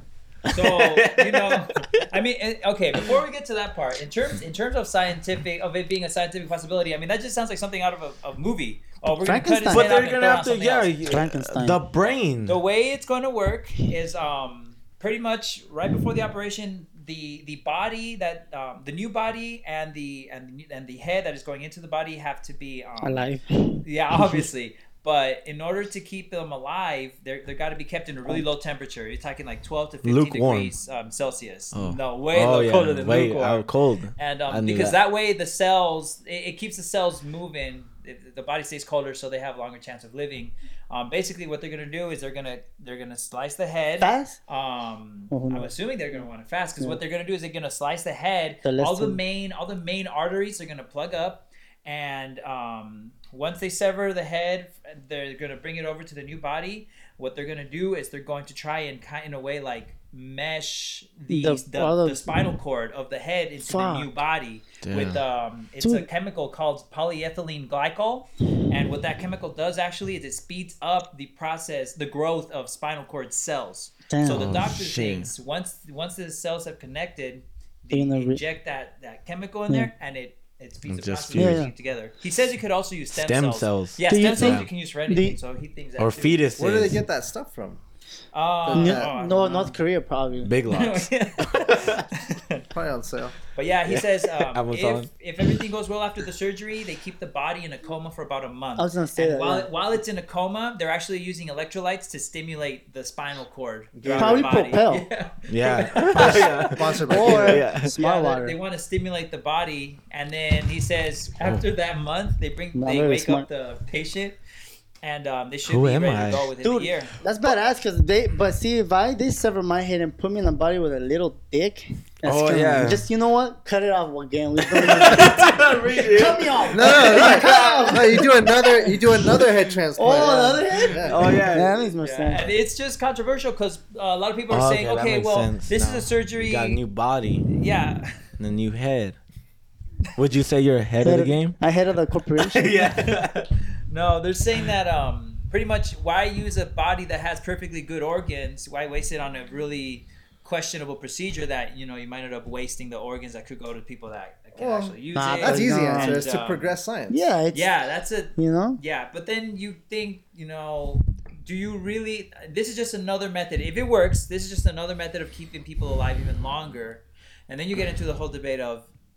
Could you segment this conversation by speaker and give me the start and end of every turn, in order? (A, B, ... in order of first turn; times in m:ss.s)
0:00.5-0:02.0 A
0:00.5-0:11.0 B
0:09.1-0:09.9 C
0:09.7-0:12.6 A
0:11.1-0:11.8 C
0:12.4-0:23.2 B
0:23.0-0:24.5 C
0:23.8-1:26.4 B
0:30.0-0:30.7 A
0:31.7-0:35.0 A
0:44.0-0:44.4 C
0:45.3-0:46.2 C
0:48.6-0:49.2 C
1:01.3-1:02.4 C
1:03.6-1:04.1 C
1:04.8-1:05.2 A
1:05.8-1:06.0 C
1:14.1-1:14.5 C
1:14.2-1:15.3 A
1:17.9-1:18.4 C
1:20.9-1:21.6 A
1:21.3-1:21.7 C
1:23.1-1:24.7 A
1:24.1-1:25.4 C
1:26.0-1:27.0 A
1:26.6-1:27.8 D
1:28.3-1:29.8 B
1:28.6-1:29.1 D
1:28.7-1:30.5 C
1:30.4-1:32.0 A
1:30.7-1:32.6 B
1:32.7-1:33.3 D
1:33.5-1:54.4 B
1:33.8-1:35.1 A
1:38.8-1:39.7 C
1:43.9-1:44.6 D
1:44.2-1:45.1 C
1:45.5-1:47.9 A
1:46.2-1:47.6 D
1:47.0-1:48.6 C
1:52.7-1:53.5 C
1:55.0-1:57.1 B
1:55.6-1:56.5 A
1:56.6-2:08.9 C
2:02.2-2:03.1 A
2:04.8-2:07.9 A
2:04.9-2:05.4 B
2:06.7-2:11.3 D
2:10.0-2:12.5 C
2:10.7-2:16.8 B
2:11.0-2:11.8 A
2:14.5-2:17.4 A
2:17.4-2:18.2 B
2:18.4-2:19.2 A
2:20.2-2:21.6 A
2:21.0-2:22.7 C
2:22.4-2:36.7 B
2:22.6-2:23.3 A
2:34.6-2:37.2 D
2:35.1-2:36.2 C
2:37.1-2:37.7 C
2:37.5-2:48.9 B
2:38.4-2:38.8 C